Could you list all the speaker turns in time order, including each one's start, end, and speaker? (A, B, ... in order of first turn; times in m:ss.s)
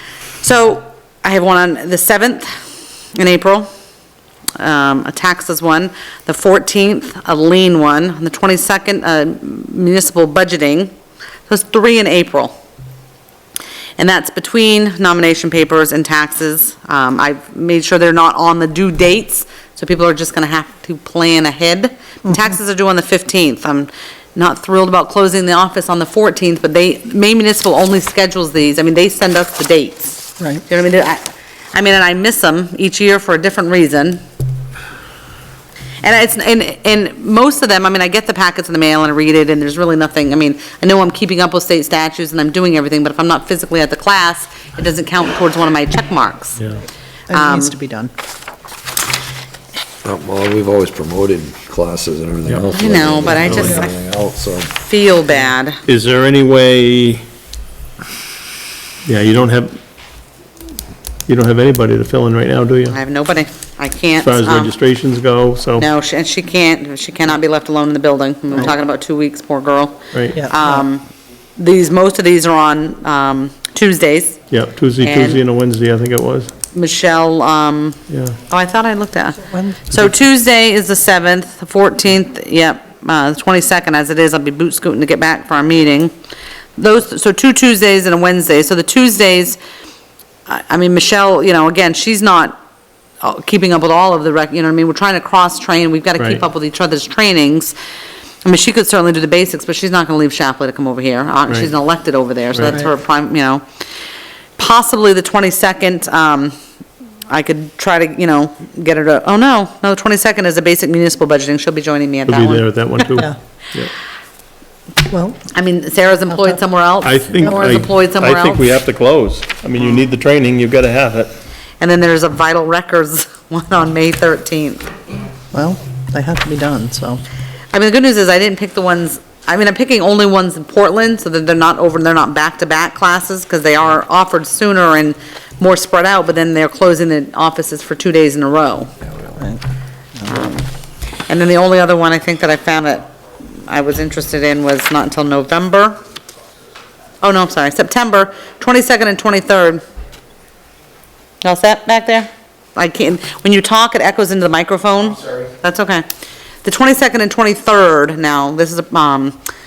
0:00.4-0:02.6 A
0:03.2-0:03.7 A
0:04.6-0:10.9 A
0:11.5-0:12.5 A
0:14.0-0:34.2 A
0:36.0-0:46.6 A
0:47.3-0:48.1 B
0:47.3-0:47.7 A
0:50.0-0:54.7 C
0:52.5-0:52.7 D
0:52.8-0:53.9 A
0:53.3-0:53.8 D
0:54.8-0:55.8 A
0:55.9-0:57.2 D
0:59.0-0:59.8 D
1:01.3-1:03.0 D
1:02.9-1:04.7 A
1:04.2-1:05.9 D
1:05.8-1:11.0 A
1:10.3-1:10.8 B
1:11.6-1:14.4 A
1:14.5-1:16.5 D
1:15.0-1:15.4 A
1:16.7-1:26.1 A
1:18.1-1:18.4 D
1:19.4-1:20.0 B
1:26.8-1:29.6 A
1:30.5-1:32.6 A
1:33.2-1:37.7 A
1:36.2-1:36.4 D
1:38.4-1:43.6 A
1:44.6-1:46.5 A
1:47.3-1:52.7 A
1:52.3-1:53.9 D
1:55.1-1:55.5 B
1:55.5-1:58.6 A
1:57.0-2:01.3 D
2:01.8-2:04.8 A
2:05.5-2:07.2 B
2:07.7-2:18.9 A
2:20.3-2:20.7 A
2:21.2-2:23.1 A
2:23.6-2:26.0 A
2:27.2-2:29.8 A
2:31.4-2:36.0 A
2:36.6-2:39.4 A